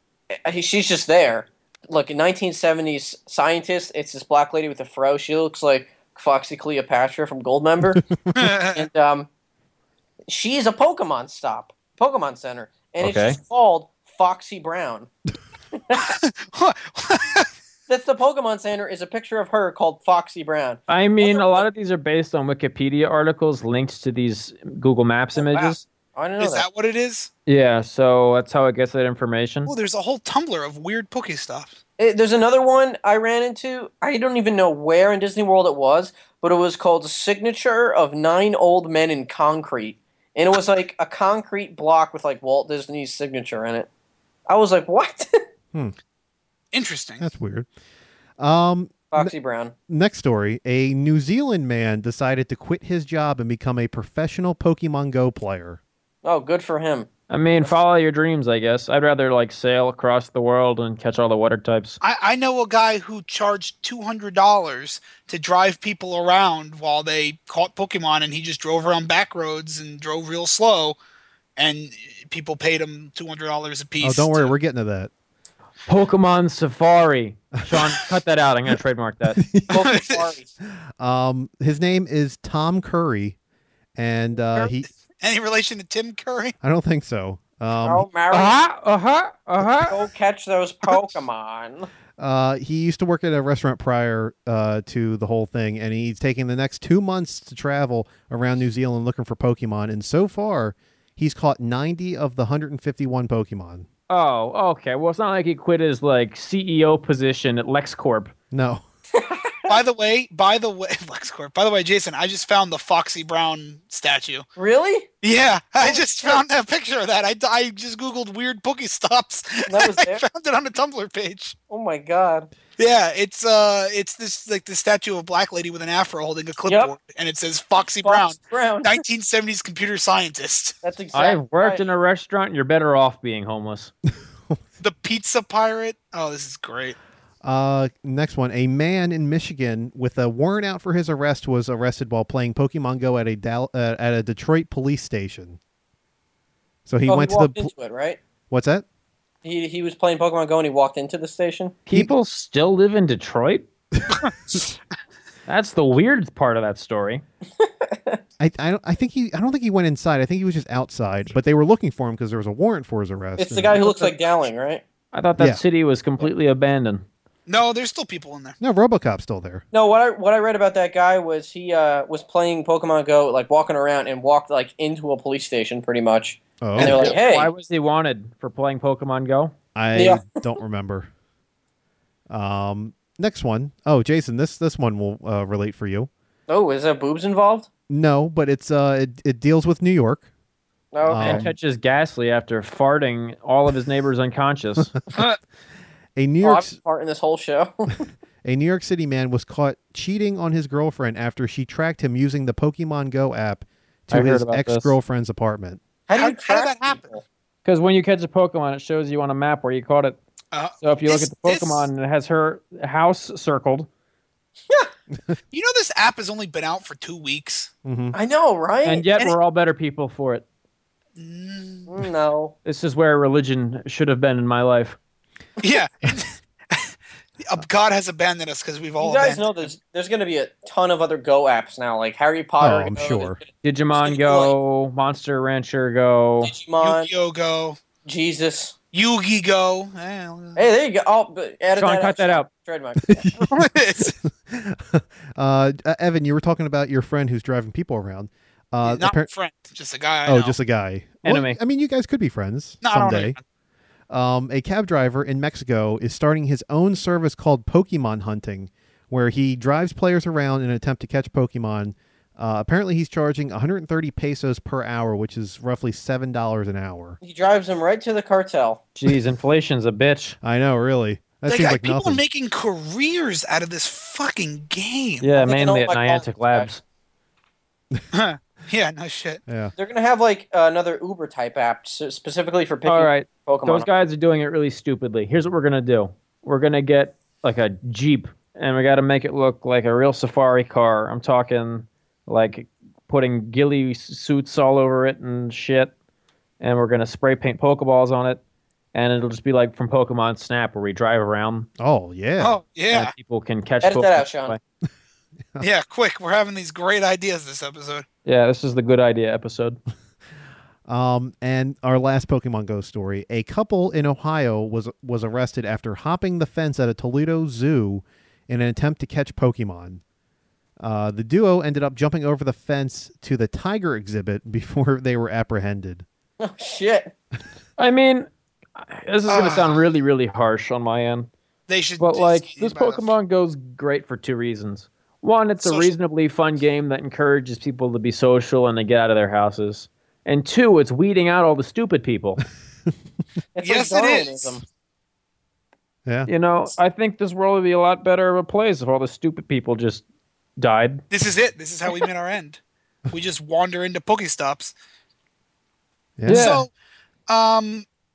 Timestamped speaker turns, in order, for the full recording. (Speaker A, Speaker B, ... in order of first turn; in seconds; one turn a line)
Speaker A: 0.4-8.1
Speaker B: 8.3-8.8
Speaker A: 8.6-9.3
Speaker A: 10.3-15.1
Speaker C: 13.0-13.4
Speaker A: 15.7-16.1
Speaker B: 16.1-17.5
Speaker A: 17.9-21.6
Speaker C: 20.9-25.8
Speaker A: 25.4-26.6
Speaker B: 26.4-27.3
Speaker C: 27.4-29.7
Speaker B: 29.7-31.8
Speaker A: 32.0-43.9
Speaker A: 44.5-45.4
Speaker B: 46.7-47.2
Speaker D: 47.2-47.7
Speaker D: 48.4-49.3
Speaker A: 49.1-49.7
Speaker D: 49.9-55.8
Speaker A: 56.2-57.1
Speaker C: 57.3-62.0
Speaker B: 62.0-71.0
Speaker B: 71.6-74.5
Speaker D: 74.0-75.1
Speaker C: 75.8-79.4
Speaker D: 79.3-79.8
Speaker A: 79.7-80.5
Speaker B: 79.7-80.3
Speaker D: 81.0-83.3
Speaker D: 84.0-84.9
Speaker A: 84.4-84.7
Speaker B: 85.2-86.5
Speaker D: 86.6-88.0
Speaker A: 87.8-88.6
Speaker C: 88.3-90.0
Speaker A: 89.8-91.9
Speaker D: 92.2-103.8
Speaker C: 104.1-108.3
Speaker D: 108.5-108.8
Speaker A: 109.1-109.7
Speaker B: 109.7-114.5
Speaker A: 114.5-115.1
Speaker B: 115.2-121.5
Speaker A: 115.8-116.4
Speaker A: 119.7-120.2
Speaker A: 121.7-122.5
Speaker B: 122.8-130.8
Speaker A: 126.7-126.9
Speaker A: 128.0-129.0
Speaker A: 130.8-131.8
Speaker C: 131.1-133.9
Speaker B: 134.8-137.0
Speaker D: 137.4-145.6
Speaker D: 146.9-147.7
Speaker A: 147.1-148.2
Speaker D: 148.5-148.8
Speaker A: 149.4-151.7
Speaker C: 151.8-153.7
Speaker C: 155.5-157.2
Speaker A: 157.6-158.2
Speaker D: 158.4-164.0
Speaker A: 163.4-164.8
Speaker C: 165.1-167.0
Speaker D: 165.4-165.6
Speaker B: 167.5-168.6
Speaker D: 168.6-169.6
Speaker A: 169.7-177.5
Speaker D: 176.6-177.2
Speaker C: 176.8-179.5
Speaker D: 179.7-181.1
Speaker A: 179.9-180.3
Speaker D: 182.3-186.1
Speaker A: 186.5-187.7
Speaker D: 187.9-190.3
Speaker A: 190.9-191.5
Speaker D: 191.0-191.5
Speaker C: 191.2-194.9
Speaker D: 196.2-196.8
Speaker A: 196.4-198.0
Speaker D: 198.4-205.8
Speaker C: 204.1-204.9
Speaker A: 206.1-207.2
Speaker B: 206.2-207.2
Speaker C: 207.6-210.2
Speaker B: 210.5-211.9
Speaker C: 210.8-213.9
Speaker B: 215.5-217.7
Speaker D: 217.8-218.2
Speaker A: 218.1-219.3
Speaker C: 218.8-220.4
Speaker B: 221.2-221.9
Speaker A: 221.9-222.5
Speaker C: 222.6-225.0
Speaker B: 225.6-229.5
Speaker A: 229.0-233.5
Speaker D: 232.6-233.4
Speaker C: 233.6-236.5
Speaker A: 234.0-234.5
Speaker A: 236.4-237.1
Speaker B: 236.8-237.8
Speaker A: 238.0-238.7
Speaker B: 238.9-240.6
Speaker A: 240.6-243.3
Speaker C: 241.8-242.5
Speaker D: 243.1-249.3
Speaker B: 243.4-244.1
Speaker B: 248.8-250.6
Speaker D: 250.2-253.3
Speaker C: 251.2-251.6
Speaker B: 252.8-253.4
Speaker D: 254.1-267.2
Speaker A: 267.2-268.8
Speaker C: 268.9-270.4
Speaker D: 270.4-272.2
Speaker B: 271.5-275.3
Speaker C: 275.2-276.8
Speaker A: 275.4-276.7
Speaker B: 278.1-279.4
Speaker D: 279.5-279.7
Speaker A: 279.8-283.9
Speaker C: 282.9-295.9
Speaker C: 296.6-298.4
Speaker C: 298.9-301.7
Speaker D: 301.8-302.6
Speaker B: 302.4-303.1
Speaker C: 302.9-304.6
Speaker A: 303.8-304.6
Speaker B: 305.6-308.1
Speaker C: 308.2-309.8
Speaker D: 310.9-320.0
Speaker D: 320.8-326.0
Speaker A: 326.4-327.1
Speaker C: 327.8-331.3
Speaker B: 329.3-329.7
Speaker B: 331.7-333.1
Speaker C: 332.0-342.4
Speaker B: 335.6-335.9
Speaker A: 343.5-344.6
Speaker B: 343.6-344.4
Speaker C: 346.3-350.0
Speaker C: 350.6-351.0
Speaker B: 351.1-352.6
Speaker B: 353.1-354.7
Speaker D: 356.2-356.5
Speaker C: 356.3-356.6
Speaker B: 356.3-356.7
Speaker B: 357.3-357.8